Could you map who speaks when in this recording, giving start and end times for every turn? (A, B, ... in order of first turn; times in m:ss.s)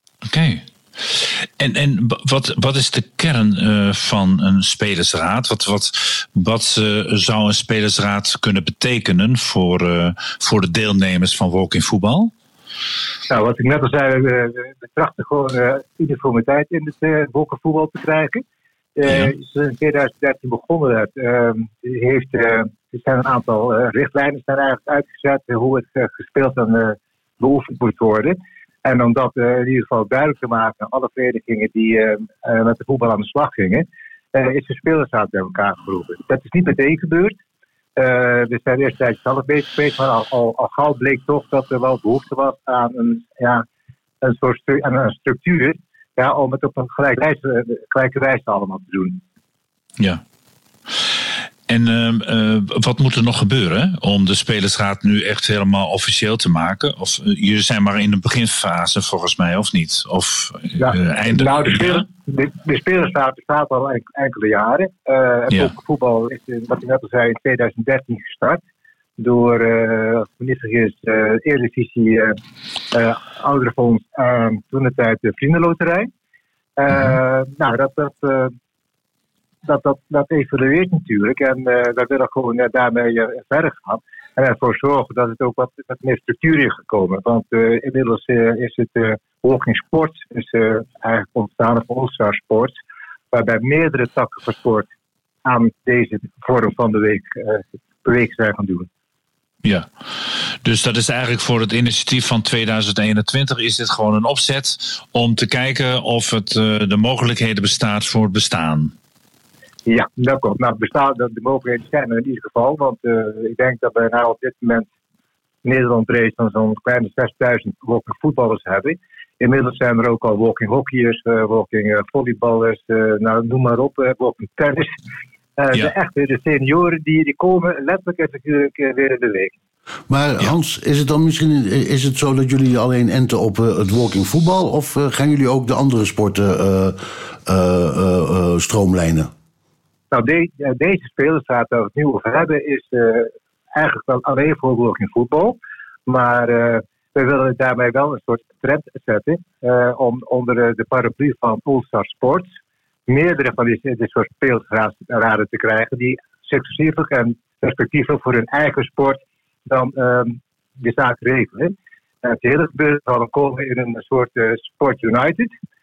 0:00.2-0:12.3 A
0:13.3-0:18.4 B
0:19.0-0:37.4 B
0:19.0-0:19.3 A
0:38.0-0:43.6 B
0:44.2-0:49.2 B
0:51.7-1:02.0 A
1:00.8-1:08.6 B
1:09.2-1:12.4 B
1:12.9-1:16.1 B
1:16.8-1:18.5 B
1:19.6-1:32.7 B
1:33.3-1:34.9 B
1:35.4-1:38.9 B
1:39.6-1:48.9 A
1:49.9-1:54.9 B
1:55.6-2:04.9 B
2:05.6-2:09.5 B
2:10.1-2:19.3 C
2:20.1-2:32.5 B
2:33.1-2:45.5 B